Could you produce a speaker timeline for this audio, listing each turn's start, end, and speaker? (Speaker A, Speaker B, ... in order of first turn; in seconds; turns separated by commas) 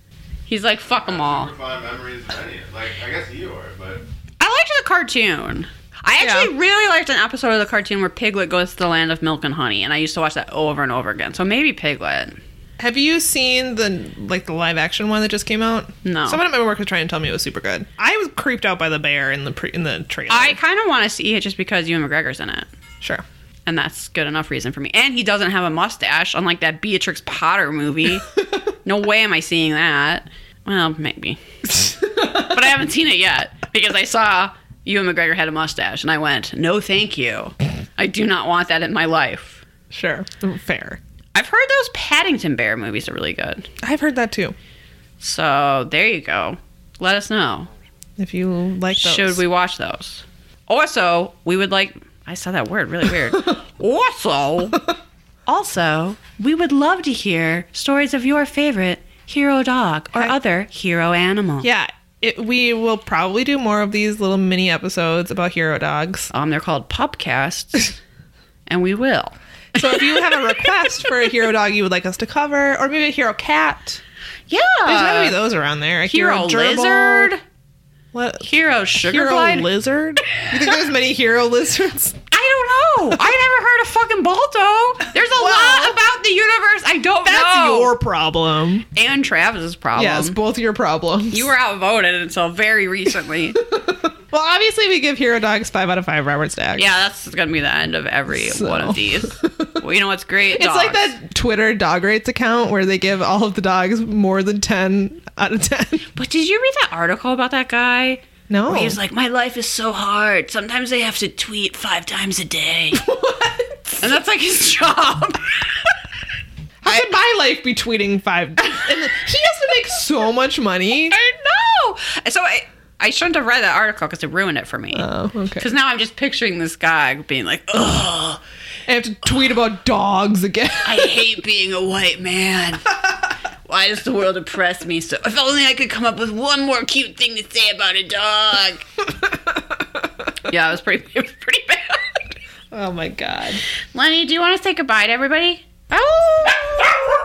Speaker A: 0.5-1.5, Speaker B: 1.0-4.0, Speaker A: 4.4-12.4, Speaker C: 6.2-6.5, Speaker C: 12.8-20.6, Speaker A: 16.0-16.4, Speaker A: 20.3-22.7, Speaker A: 23.7-28.3, Speaker A: 28.8-39.6, Speaker C: 39.9-41.0, Speaker A: 41.4-43.7, Speaker C: 43.8-44.5, Speaker A: 45.2-47.7, Speaker C: 48.2-49.4, Speaker A: 49.0-54.8, Speaker A: 55.5-61.7, Speaker C: 61.6-66.3, Speaker A: 66.3-68.0, Speaker A: 68.7-70.7, Speaker C: 69.8-74.0, Speaker A: 74.5-75.4, Speaker C: 74.9-77.3, Speaker A: 76.1-77.4, Speaker C: 78.1-82.2, Speaker A: 78.4-79.7, Speaker A: 82.3-87.9, Speaker C: 85.3-86.0, Speaker C: 87.2-88.9, Speaker A: 89.0-90.4, Speaker C: 90.0-91.5, Speaker A: 91.3-93.6, Speaker C: 93.7-96.9, Speaker A: 96.8-101.2, Speaker C: 98.5-99.8, Speaker C: 100.5-106.1, Speaker A: 106.2-113.0, Speaker C: 108.5-109.0, Speaker C: 112.9-114.0, Speaker A: 114.0-115.7, Speaker C: 116.8-121.2, Speaker A: 121.1-125.1, Speaker C: 124.9-125.7, Speaker A: 125.6-128.4, Speaker C: 128.9-131.1, Speaker A: 130.8-132.9, Speaker A: 133.7-138.9, Speaker A: 140.5-142.2, Speaker C: 142.7-143.6, Speaker A: 143.9-146.6